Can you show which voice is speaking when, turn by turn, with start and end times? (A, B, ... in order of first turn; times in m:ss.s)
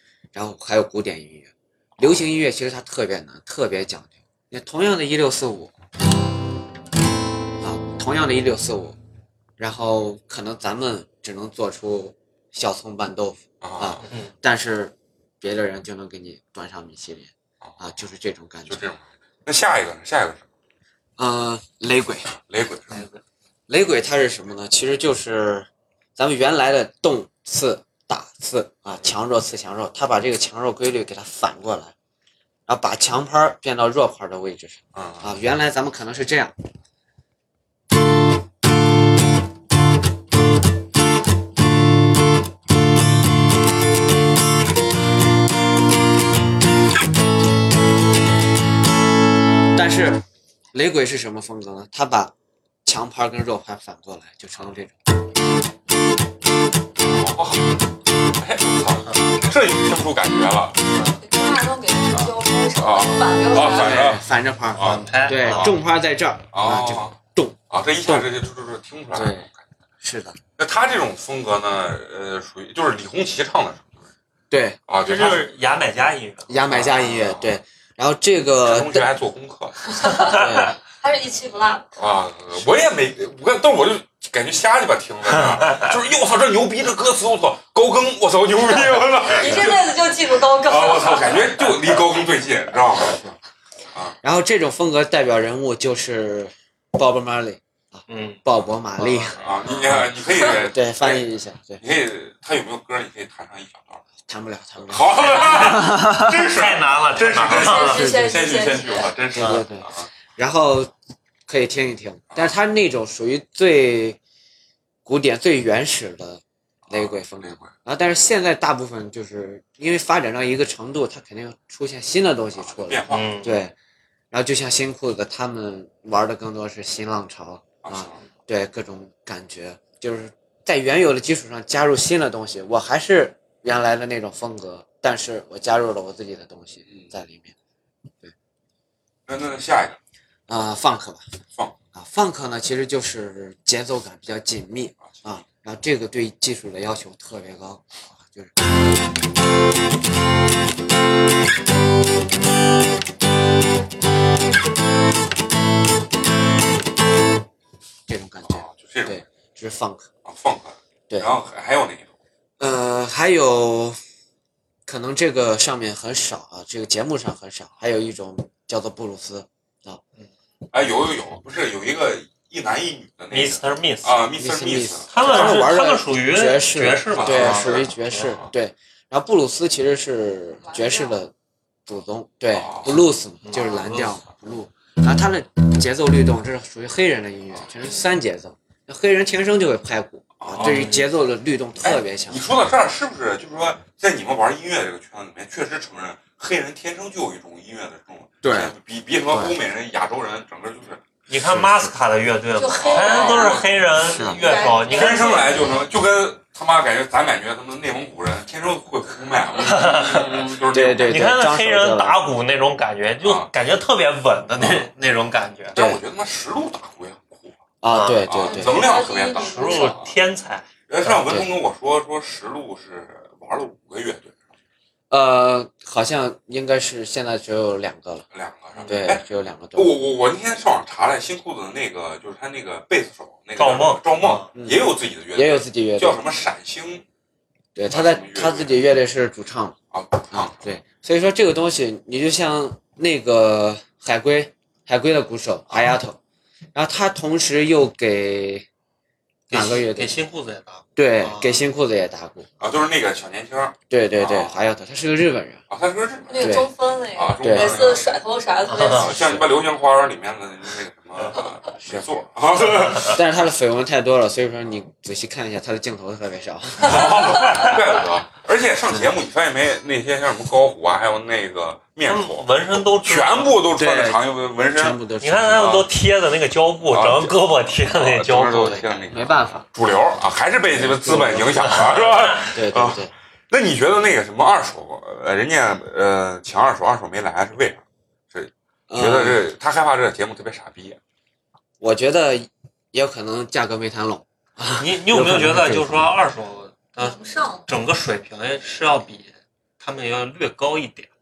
0:00.3-0:05.7 A
0:02.0-0:02.2 B
0:07.6-0:09.0 A
0:09.6-0:18.9 A
0:13.6-0:14.0 B
0:14.0-0:14.3 C
0:17.6-0:17.9 B
0:18.7-0:20.4 B
0:21.2-0:22.3 A
0:22.4-0:23.0 B
0:22.9-0:23.2 C
0:23.7-0:31.9 A
0:32.7-0:36.5 A
0:34.9-0:35.3 B
0:49.7-0:52.3 A
0:52.8-0:55.0 A
0:57.0-0:57.7 B
0:58.3-1:00.8 B
1:00.9-1:01.2 C
1:01.2-1:04.1 D
1:02.1-1:05.8 B
1:03.5-1:08.3 A
1:04.8-1:05.7 C
1:06.5-1:07.2 B
1:07.7-1:09.6 B
1:09.1-1:09.5 A
1:10.0-1:10.4 A
1:10.6-1:14.1 B
1:14.5-1:14.8 A
1:14.9-1:15.5 B
1:15.0-1:16.5 C
1:16.5-1:19.1 A
1:16.7-1:17.6 B
1:18.6-1:19.8 B
1:20.0-1:20.4 D
1:20.2-1:20.8 A
1:21.0-1:21.9 D
1:22.0-1:33.4 B
1:29.2-1:31.7 D
1:34.2-1:39.4 A
1:38.1-1:38.4 C
1:39.0-1:39.4 C
1:39.3-1:41.2 B
1:40.5-1:41.8 A
1:41.8-1:44.0 B
1:44.3-1:46.5 A
1:44.9-1:50.1 B
1:45.4-1:48.1 C
1:47.4-1:49.1 D
1:47.9-1:48.4 A
1:49.3-1:50.9 A
1:49.4-1:49.6 C
1:51.5-1:54.2 A
1:55.0-2:03.7 A
1:56.9-1:57.7 B
2:02.6-2:03.4 B
2:03.1-2:03.6 C
2:04.3-2:17.5 A
2:07.8-2:08.2 B
2:19.3-2:20.0 B
2:20.5-2:21.2 A
2:21.9-2:28.5 A
2:25.0-2:25.4 B
2:38.1-2:40.1 A
2:38.4-2:39.2 B
2:40.2-2:42.1 B
2:42.6-2:44.0 A
2:44.8-2:50.0 A
2:50.7-2:55.7 B
2:53.3-2:54.2 C
2:54.4-3:01.3 A
2:55.1-2:58.4 C
2:57.1-2:58.5 B
3:00.6-3:01.2 D
3:01.8-3:12.5 A
3:02.5-3:03.0 B
3:03.4-3:04.2 C
3:03.5-3:03.8 D
3:10.4-3:10.9 B
3:10.6-3:11.1 C
3:11.8-3:21.0 B
3:18.4-3:18.7 A
3:19.3-3:19.6 A
3:21.3-3:25.6 C
3:21.4-3:21.9 A
3:22.6-3:25.8 D
3:22.7-3:24.1 B
3:24.0-3:24.4 A
3:24.8-3:31.2 B
3:29.6-3:30.5 C
3:30.7-3:32.2 A
3:31.0-3:35.8 C
3:33.2-3:33.5 B
3:35.7-3:37.6 B
3:35.8-3:36.0 A
3:37.8-3:38.8 A
3:37.9-3:38.8 C
3:38.2-3:40.2 B
3:38.5-3:40.0 D
3:39.4-3:41.2 C
3:40.9-3:44.3 B
3:45.1-3:48.2 A
3:48.3-3:57.0 B
3:48.7-3:49.0 C
3:48.9-3:50.0 A
3:53.6-3:54.5 C
3:54.5-3:56.2 A
3:57.7-3:59.8 A
3:57.9-3:58.8 B
3:59.9-4:00.8 B
4:00.3-4:06.2 A
4:06.7-4:08.6 A
4:09.5-4:10.2 A
4:09.5-4:11.6 C
4:11.0-4:12.5 A
4:12.6-4:14.6 B
4:13.9-4:15.6 A
4:15.7-4:18.2 B
4:16.3-4:19.2 D
4:16.4-4:16.7 A
4:17.4-4:17.8 A
4:18.7-4:19.1 C
4:18.8-4:23.2 B
4:19.2-4:19.4 A
4:22.9-4:27.2 A
4:26.8-4:32.5 B
4:32.0-4:33.6 C
4:33.0-4:35.0 B
4:33.8-4:35.8 A
4:35.2-4:39.0 C
4:35.5-4:35.9 B
4:36.9-4:51.0 B
4:39.1-4:39.6 A
4:40.7-4:41.5 A
4:41.1-4:42.4 C
4:42.4-4:43.1 A
4:48.9-4:49.4 A
4:51.8-4:56.1 A
4:54.8-5:01.1 C
4:57.0-4:57.6 D